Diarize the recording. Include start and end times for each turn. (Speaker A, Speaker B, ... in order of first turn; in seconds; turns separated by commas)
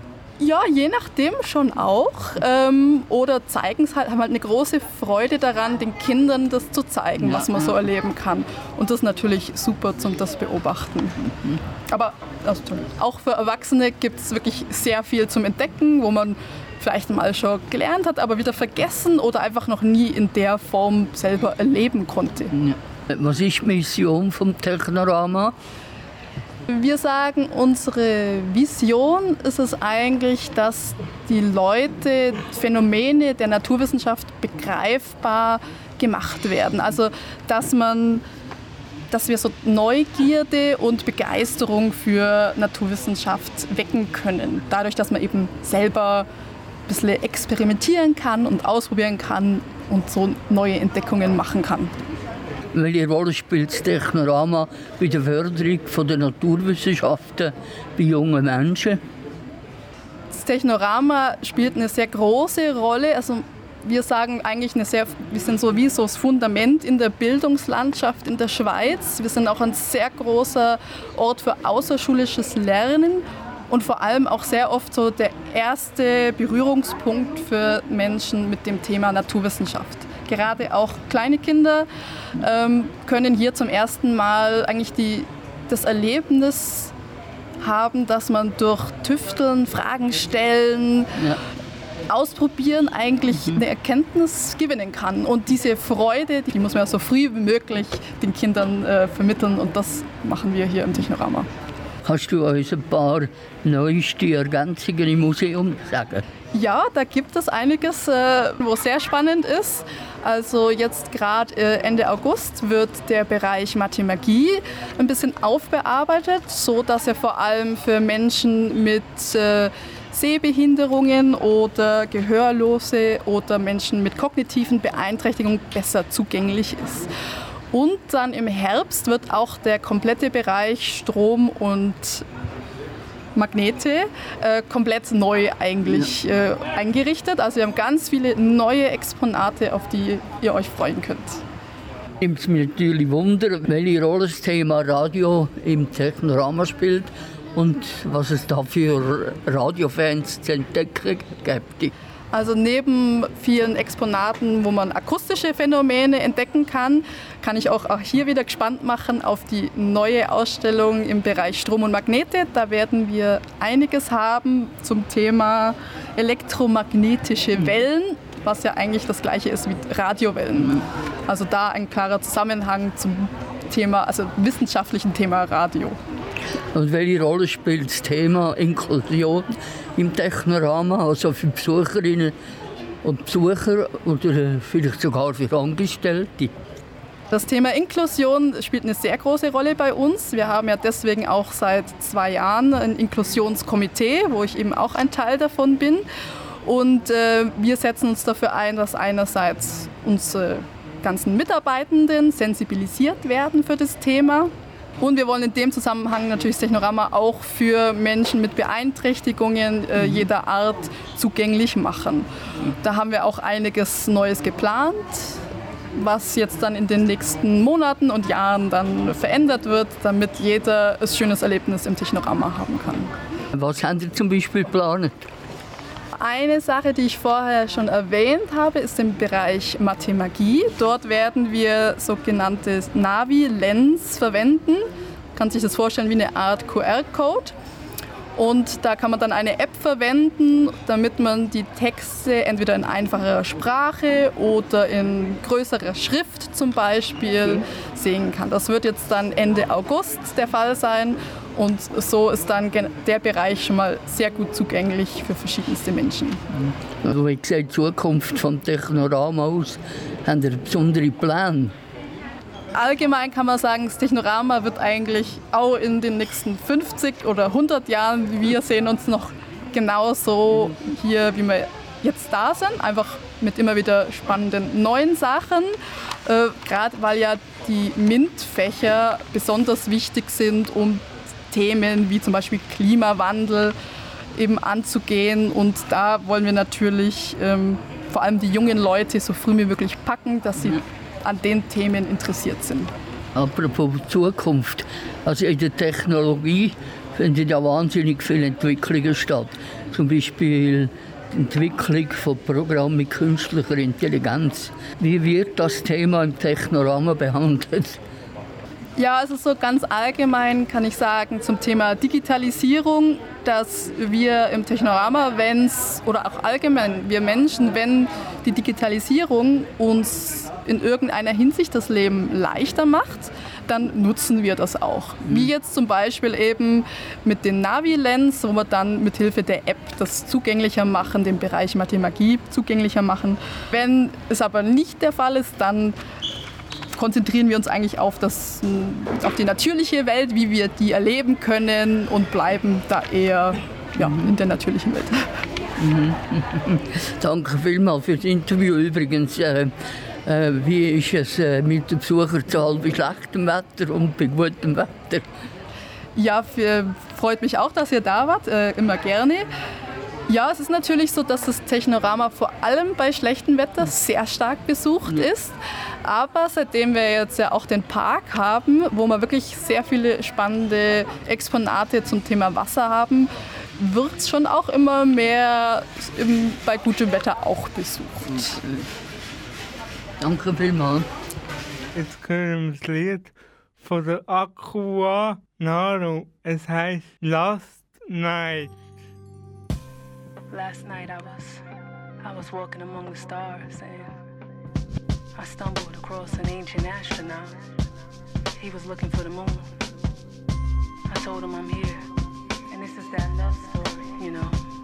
Speaker A: 0.4-11.2, Speaker B: 7.2-7.7, Speaker B: 11.2-11.6, Speaker A: 11.9-22.5, Speaker B: 22.5-25.5, Speaker A: 26.7-38.2, Speaker A: 39.1-46.3, Speaker A: 46.9-51.9, Speaker B: 52.7-59.0, Speaker A: 60.3-86.9, Speaker A: 87.6-91.2, Speaker A: 92.1-101.5, Speaker B: 93.3-93.6, Speaker B: 102.0-106.2, Speaker A: 106.5-127.1, Speaker A: 127.7-132.2, Speaker A: 133.3-141.4, Speaker B: 142.2-151.9, Speaker A: 152.3-176.0, Speaker B: 176.7-182.3, Speaker B: 183.0-186.5, Speaker A: 187.3-196.1, Speaker A: 196.6-215.4, Speaker B: 209.9-210.3, Speaker A: 215.9-223.1, Speaker B: 223.5-225.2, Speaker A: 226.1-237.5, Speaker A: 238.3-256.4, Speaker B: 256.5-261.7, Speaker A: 262.7-283.8, Speaker A: 284.4-292.9, Speaker B: 293.3-308.0, Speaker A: 309.0-335.9, Speaker B: 325.2-325.5, Speaker A: 336.9-345.3, Speaker B: 345.8-349.7, Speaker B: 350.2-355.2, Speaker A: 356.1-359.5, Speaker A: 360.3-378.6, Speaker B: 378.3-378.9, Speaker B: 380.2-381.1, Speaker C: 381.9-388.7, Speaker D: 390.5-391.6, Speaker D: 392.2-394.1, Speaker D: 395.4-397.5, Speaker D: 398.6-399.6, Speaker D: 401.1-402.1, Speaker D: 402.7-404.6